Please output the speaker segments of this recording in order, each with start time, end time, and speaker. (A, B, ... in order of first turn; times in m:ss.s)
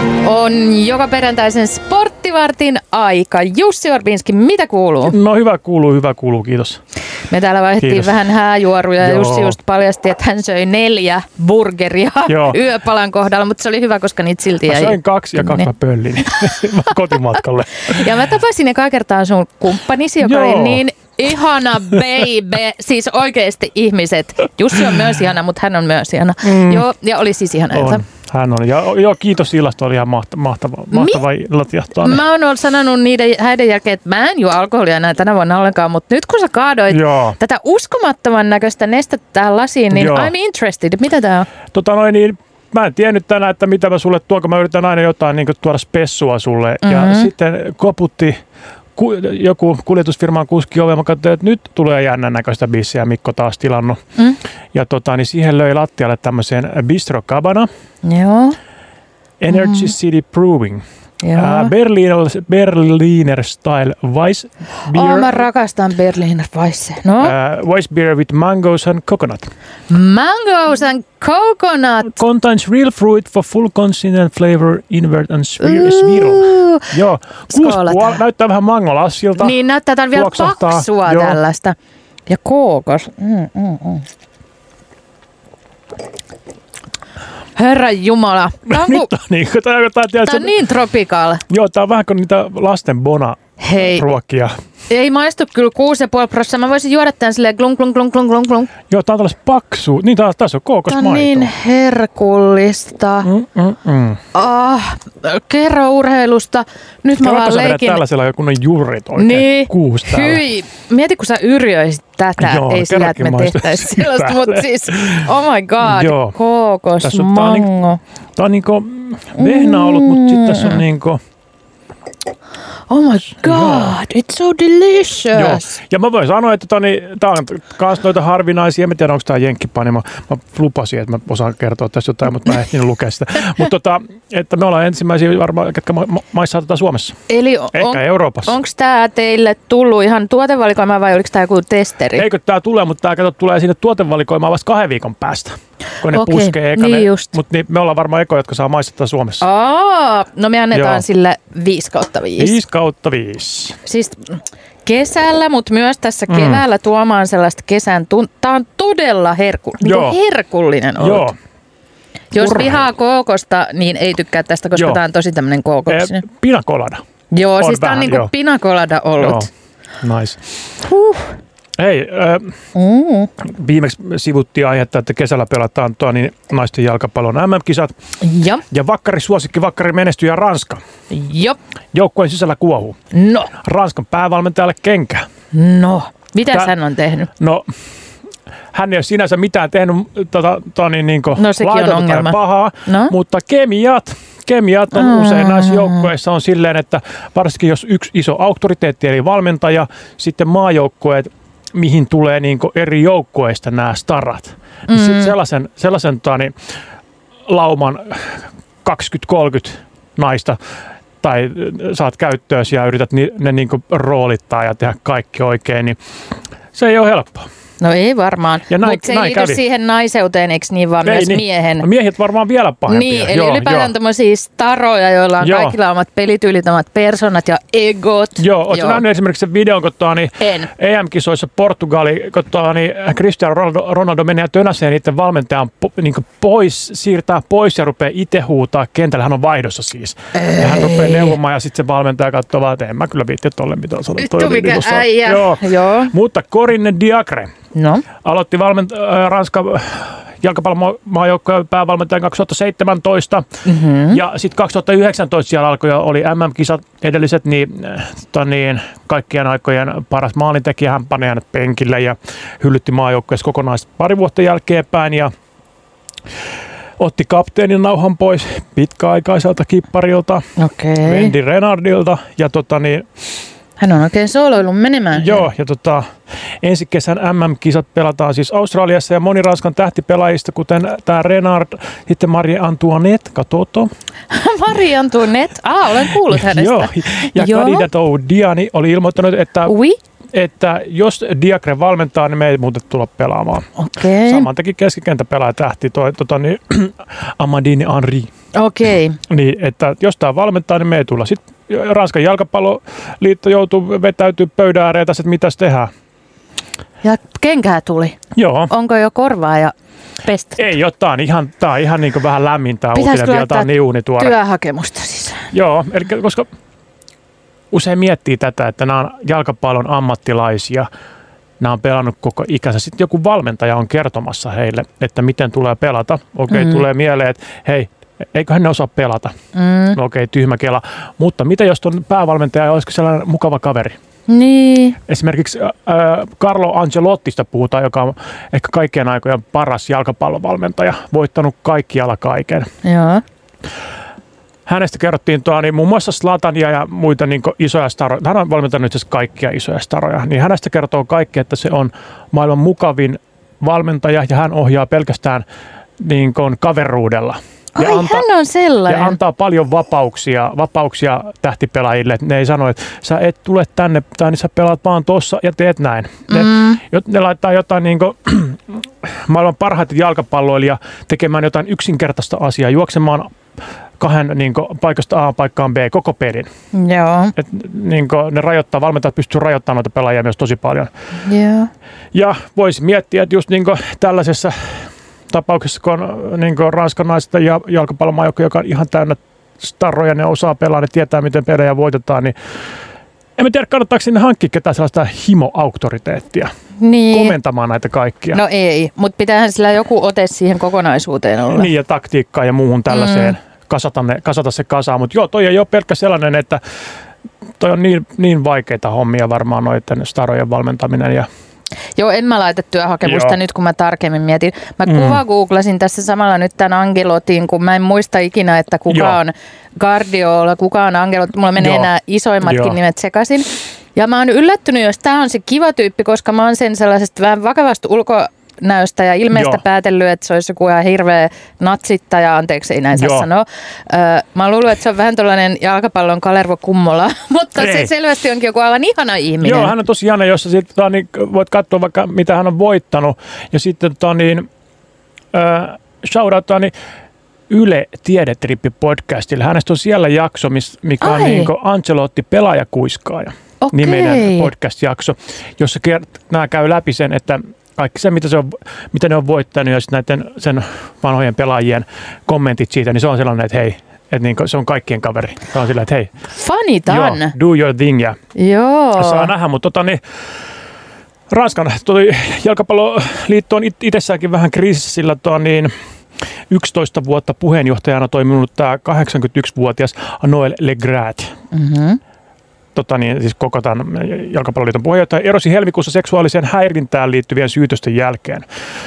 0:00.2-0:05.2 A
0:05.1-0:06.8 B
0:07.3-0:15.7 A
0:07.8-0:08.1 B
0:09.0-0:09.6 B
0:12.3-0:12.6 B
0:14.6-0:18.1 B
0:17.7-0:28.0 A
0:20.2-0:20.8 B
0:26.4-0:26.8 B
0:27.7-0:32.2 B
0:30.9-0:31.2 A
0:32.0-0:41.5 A
0:36.9-0:37.4 B
0:39.9-0:40.3 B
0:41.7-0:48.4 B
0:46.8-0:47.3 A
0:49.0-0:54.0 B
0:54.7-0:57.7 B
0:58.0-0:58.6 A
0:59.4-1:00.8 B
0:59.5-0:59.9 A
1:01.2-1:01.7 A
1:01.3-1:05.4 B
1:04.9-1:07.3 A
1:07.2-1:09.5 B
1:09.9-1:12.2 A
1:12.0-1:19.6 B
1:15.6-1:16.9 A
1:17.5-1:18.2 A
1:19.4-1:21.7 A
1:20.1-1:21.4 B
1:22.3-1:24.0 A
1:27.6-1:29.1 A
1:28.7-1:30.5 B
1:30.2-1:31.4 A
1:31.5-1:34.5 B
1:33.6-1:34.1 A
1:34.9-1:38.7 A
1:38.9-1:41.5 B
1:40.9-1:43.3 A
1:43.2-1:44.2 B
1:44.3-1:48.0 A
1:47.2-1:50.4 B
1:49.2-1:58.0 A
1:52.4-1:55.3 B
1:55.8-1:56.3 B
1:57.0-1:57.7 B
1:58.4-2:01.2 B
1:59.4-2:00.8 A
2:02.9-2:05.7 A
2:03.3-2:04.0 B
2:05.3-2:17.2 B
2:17.3-2:22.2 A
2:17.7-2:18.6 B
2:22.2-2:29.4 B
2:26.1-2:27.3 A
2:29.4-2:32.5 A
2:30.7-2:31.0 B
2:32.4-2:33.8 B
2:33.8-2:41.3 A
2:36.3-2:36.6 B
2:39.8-2:40.2 B
2:41.0-2:41.4 B
2:42.3-2:46.2 A
2:42.4-2:42.8 B
2:44.7-2:45.0 B
2:45.9-2:47.0 B
2:47.3-2:49.5 A
2:47.6-2:48.3 B
2:49.2-2:49.5 B
2:50.0-2:50.5 B
2:50.8-2:51.3 A
2:51.8-2:52.6 B
2:52.7-2:53.3 A
2:53.4-2:57.9 B
2:58.2-2:58.6 A
2:58.7-3:00.8 B
3:01.1-3:01.6 A
3:01.9-3:03.0 B
3:03.1-3:03.5 A
3:03.5-3:05.3 B
3:05.5-3:07.3 A
3:06.5-3:06.7 B
3:07.4-3:07.7 B
3:08.7-3:26.5 B
3:11.3-3:13.1 A
3:14.9-3:16.1 A
3:24.9-3:25.3 A
3:27.5-3:30.6 B
3:31.2-3:36.0 B
3:36.7-3:37.5 B
3:37.8-3:41.8 A
3:38.7-3:39.6 B
3:41.0-3:43.9 B
3:42.9-3:49.0 A
3:45.4-3:45.8 B
3:48.4-4:07.5 B
3:50.4-3:50.7 A
4:00.3-4:01.4 A
4:04.2-4:06.1 A
4:07.7-4:08.0 A
4:08.2-4:13.4 B
4:13.6-4:14.2 A
4:14.1-4:25.3 B
4:27.0-4:30.4 B
4:30.6-4:31.3 A
4:31.0-4:33.1 B
4:33.8-4:35.4 A
4:35.1-4:36.0 B
4:36.6-4:43.9 B
4:44.3-4:47.8 A
4:46.0-4:49.7 B
4:49.7-4:50.0 A
4:50.3-4:53.6 B
4:53.8-4:54.5 A
4:54.2-4:58.3 B
4:58.5-4:59.2 A
4:59.3-5:05.9 B
5:07.0-5:08.2 A
5:08.3-5:08.7 B
5:08.7-5:10.6 A
5:10.6-5:14.4 B
5:12.9-5:15.5 A
5:15.5-5:16.5 B
5:17.7-5:20.9 B
5:21.6-5:29.3 B
5:26.5-5:26.8 A
5:29.5-5:30.0 A
5:29.9-5:34.0 B
5:34.3-5:35.0 A
5:35.1-5:42.7 B
5:42.8-5:43.2 A
5:44.7-5:55.4 B
5:56.0-5:58.2 B
5:57.8-5:59.2 A
5:58.9-6:13.3 B
6:06.3-6:06.8 A
6:14.0-6:16.5 B
6:16.7-6:17.3 A
6:17.4-6:20.9 B
6:21.2-6:21.7 A
6:22.1-6:32.3 B
6:33.4-6:36.5 B
6:36.8-6:37.3 A
6:37.1-6:38.4 B
6:38.3-6:41.7 A
6:41.5-6:46.6 B
6:42.9-6:43.3 A
6:47.6-6:51.3 B
6:52.0-7:19.7 A
6:53.0-6:53.4 B
6:54.8-6:55.2 B
6:58.9-6:59.2 B
7:01.6-7:01.9 B
7:02.4-7:02.8 B
7:09.3-7:09.6 B
7:12.9-7:13.3 B
7:17.6-7:17.9 B
7:19.4-7:24.5 B
7:25.3-7:26.7 B
7:27.5-7:46.1 B
7:31.0-7:31.5 A
7:33.6-7:34.5 A
7:46.3-7:47.3 A
7:46.9-7:48.2 B
7:48.4-7:49.3 A
7:49.0-7:50.0 B
7:51.3-7:55.7 B
7:56.5-8:01.3 B
8:01.5-8:02.0 A
8:02.7-8:08.4 B